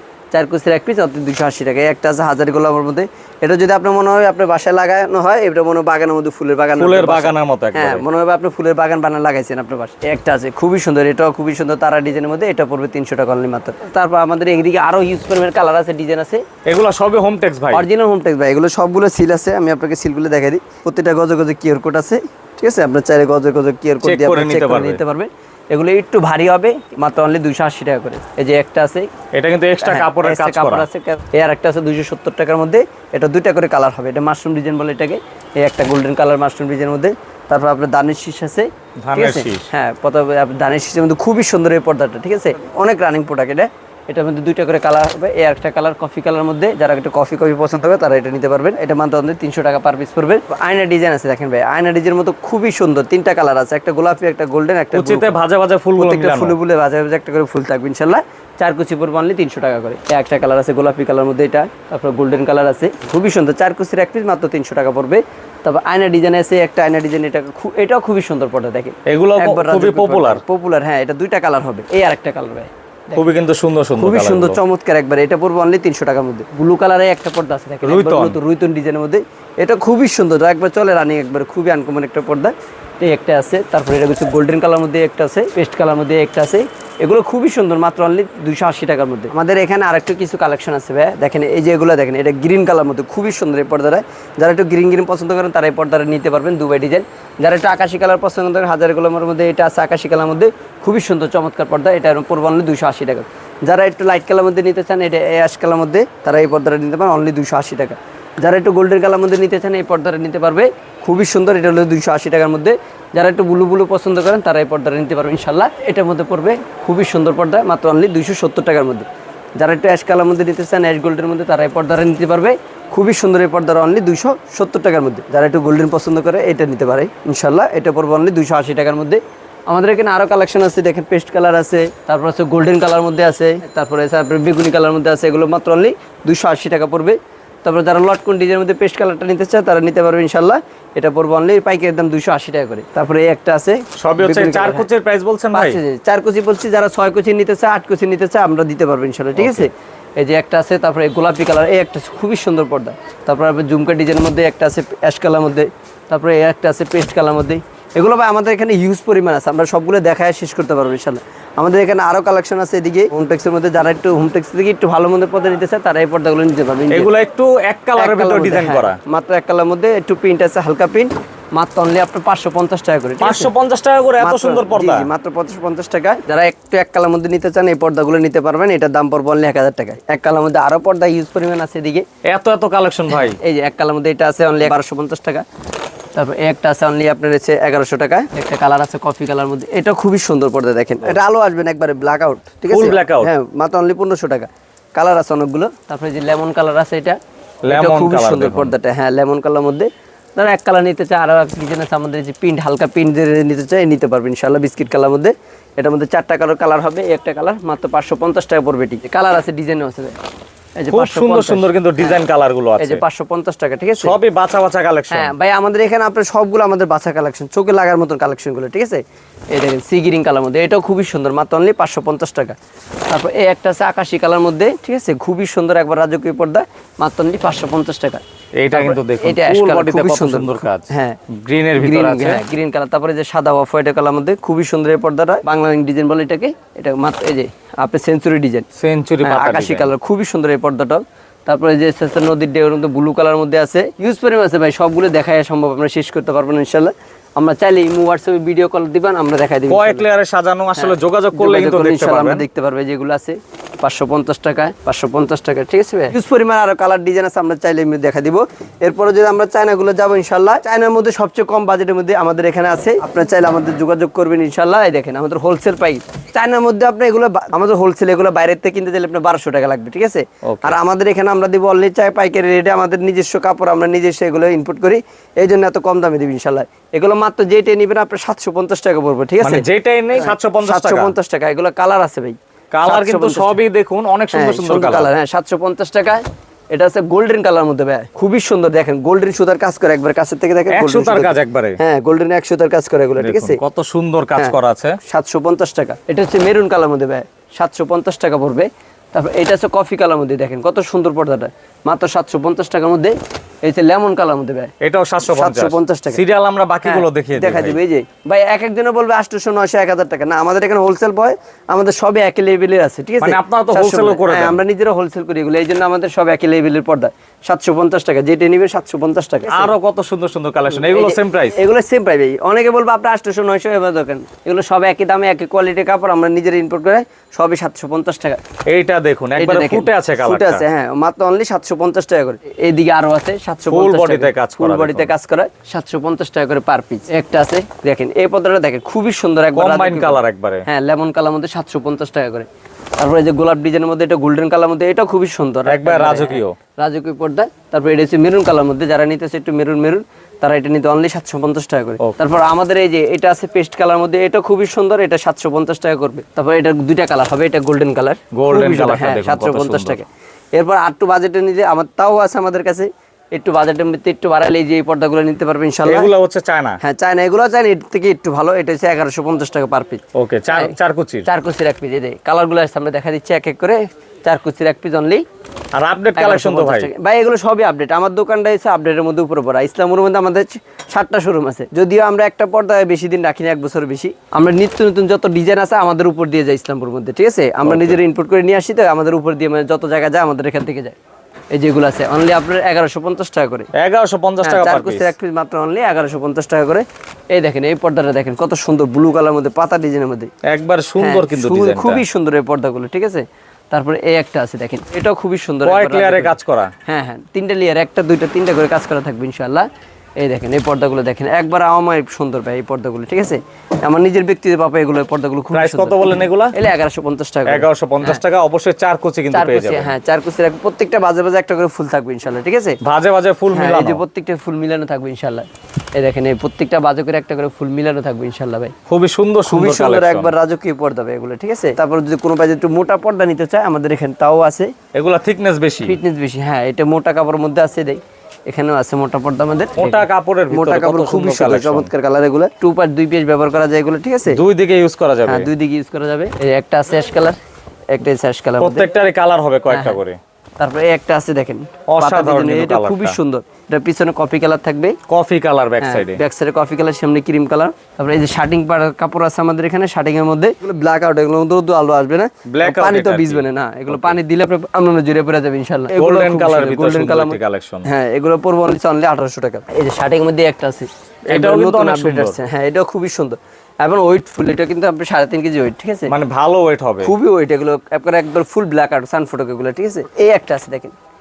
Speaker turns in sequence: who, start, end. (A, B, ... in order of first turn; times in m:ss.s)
0:00.3-0:16.4 A
0:06.8-0:08.0 B
0:16.6-0:17.9 B
0:17.7-0:29.1 A
0:24.0-0:25.0 B
0:29.3-0:30.8 B
0:29.8-0:55.3 A
0:39.0-0:39.7 B
0:54.9-0:56.6 B
0:56.0-1:13.2 A
1:09.0-1:10.4 B
1:13.1-1:14.6 B
1:13.9-2:24.9 A
1:17.8-1:18.4 B
2:24.0-2:25.8 B
2:25.5-2:47.1 A
2:29.4-2:29.7 B
2:46.9-2:49.0 B
2:48.0-2:53.5 A
2:53.2-2:55.1 B
2:54.2-3:02.0 A
3:02.2-3:03.4 B
3:03.1-3:05.4 A
3:06.1-3:17.2 A
3:12.7-3:13.3 B
3:17.6-3:18.7 B
3:17.7-3:30.1 A
3:30.8-3:32.2 A
3:30.9-3:33.0 B
3:32.8-3:34.2 A
3:34.0-3:35.3 B
3:35.1-3:42.6 A
3:43.1-3:51.2 A
3:48.6-3:52.4 B
3:51.8-3:58.6 A
3:58.8-3:59.9 B
3:59.2-4:10.0 A
4:09.7-4:12.4 B
4:10.8-4:43.6 A
4:30.4-4:30.8 B
4:39.4-4:41.2 B
4:42.7-4:45.1 B
4:44.3-4:53.6 A
4:50.7-4:51.8 B
4:53.2-4:55.0 B
4:54.4-5:04.7 A
5:04.8-5:07.8 B
5:05.2-5:06.2 A
5:06.8-5:19.7 A
5:13.2-5:14.6 B
5:19.5-5:21.6 B
5:20.7-5:28.4 A
5:28.6-5:30.6 B
5:29.4-5:42.5 A
5:33.7-5:35.1 B
5:39.5-5:40.7 B
5:43.0-6:06.1 A
5:45.6-5:46.6 B
5:58.3-6:00.0 B
6:05.8-6:06.8 B
6:06.8-6:10.7 A
6:10.1-6:11.3 B
6:11.2-6:15.2 A
6:15.8-6:16.9 B
6:16.2-6:31.0 A
6:27.6-6:28.0 B
6:31.5-6:33.7 A
6:33.7-6:35.1 B
6:34.4-6:40.3 A
6:40.4-6:42.0 B
6:41.0-6:49.7 A
6:45.6-6:46.7 B
6:50.2-6:58.2 A
6:55.5-6:56.5 B
6:57.5-6:59.9 B
6:59.3-7:02.8 A
7:02.8-7:04.0 B
7:03.5-7:08.7 A
7:08.9-7:10.3 B
7:09.4-7:14.7 A
7:14.9-7:16.0 B
7:15.8-7:24.4 A
7:19.8-7:21.9 B
7:24.3-7:25.5 B
7:25.2-7:27.4 A
7:27.9-7:28.9 A
7:28.6-7:30.2 B
7:29.7-7:30.0 A
7:30.6-7:35.0 A
7:31.9-7:33.2 B
7:35.1-7:36.2 B
7:35.8-7:56.1 A
7:42.5-7:44.2 B
7:46.0-7:47.8 B
7:51.3-7:52.4 B
7:56.1-7:57.1 B
7:57.0-8:00.9 A